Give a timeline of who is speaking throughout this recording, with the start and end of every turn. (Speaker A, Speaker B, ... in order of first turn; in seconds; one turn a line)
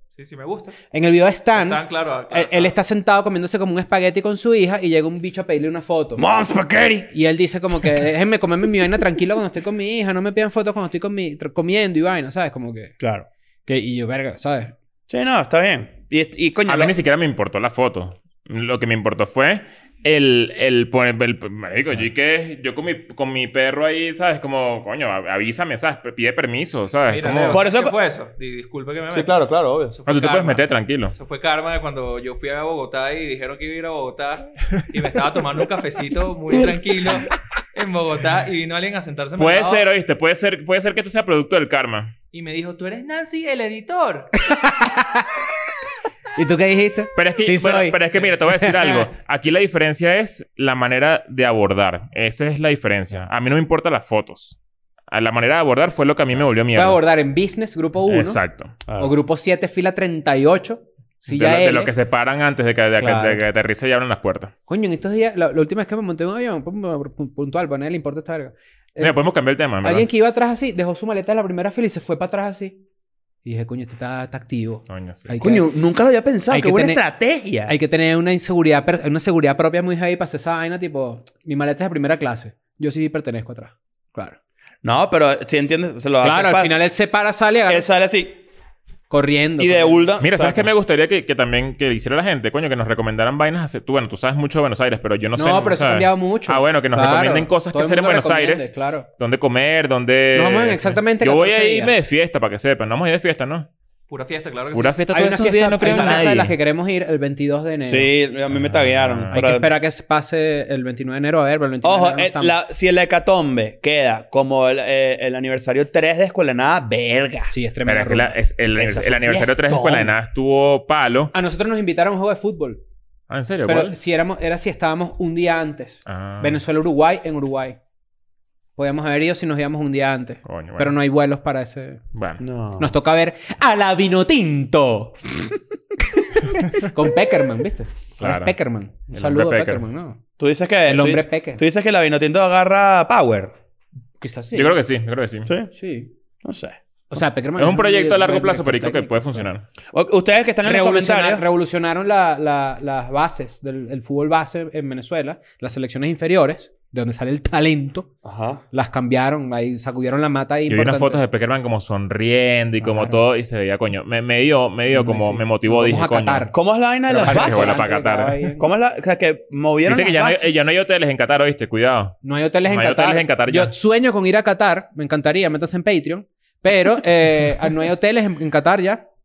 Speaker A: 0.1-0.8
Speaker B: 0.9-6.2
Speaker A: 1.5-2.7
Speaker C: 6.2-7.1
Speaker B: 7.1-12.9
Speaker C: 13.0-13.3
Speaker B: 13.7-14.7
Speaker C: 15.1-16.9
Speaker D: 16.6-27.6
Speaker A: 27.1-29.4
Speaker C: 27.5-28.0
Speaker C: 29.1-29.9
Speaker A: 29.9-39.8
Speaker D: 30.1-31.1
Speaker D: 39.4-42.1
Speaker A: 42.3-44.3
Speaker B: 44.4-45.3
Speaker B: 46.4-48.0
Speaker D: 47.1-54.6
Speaker B: 48.5-49.1
Speaker D: 55.1-57.0
Speaker B: 56.7-58.4
Speaker D: 58.1-58.7
Speaker C: 58.9-59.1
Speaker B: 59.0-61.9
Speaker D: 61.2-64.5
Speaker B: 63.0-63.4
Speaker B: 64.7-69.2
Speaker D: 69.0-70.1
Speaker B: 69.8-72.8
Speaker B: 73.4-75.7
Speaker D: 74.9-75.3
Speaker C: 75.4-77.7
Speaker B: 76.5-77.0
Speaker B: 77.7-84.3
Speaker C: 84.8-86.8
Speaker B: 86.2-87.9
Speaker C: 87.7-88.4
Speaker B: 89.1-90.1
Speaker C: 89.6-90.7
Speaker D: 90.2-103.7
Speaker B: 95.3-99.1
Speaker B: 100.3-102.0
Speaker A: 104.1-105.0
Speaker D: 104.7-106.5
Speaker B: 105.1-108.1
Speaker A: 105.8-106.3
Speaker C: 107.9-109.7
Speaker D: 108.5-109.4
Speaker B: 109.3-112.5
Speaker C: 111.8-117.5
Speaker B: 117.5-118.3
Speaker D: 117.9-121.3
Speaker C: 118.8-120.1
Speaker B: 121.3-122.8
Speaker D: 123.3-124.0
Speaker B: 123.7-127.8
Speaker D: 126.0-126.6
Speaker B: 128.8-132.0
Speaker D: 130.4-130.9
Speaker D: 132.1-132.4
Speaker C: 132.4-132.9
Speaker B: 132.8-135.3
Speaker B: 136.3-140.2
Speaker D: 138.2-138.5
Speaker D: 139.1-139.8
Speaker C: 140.4-143.5
Speaker B: 140.9-141.6
Speaker B: 144.2-144.8
Speaker D: 144.5-145.5
Speaker B: 145.7-146.1
Speaker C: 146.4-146.8
Speaker B: 147.1-149.4
Speaker D: 147.6-149.6
Speaker C: 149.9-151.4
Speaker B: 150.6-158.1
Speaker C: 158.2-158.6
Speaker B: 158.7-161.2
Speaker D: 160.7-166.5
Speaker B: 162.8-163.2
Speaker B: 164.9-166.5
Speaker C: 166.5-167.9
Speaker B: 167.1-168.7
Speaker D: 167.1-168.5
Speaker C: 168.6-170.5
Speaker D: 169.8-173.7
Speaker B: 172.2-179.0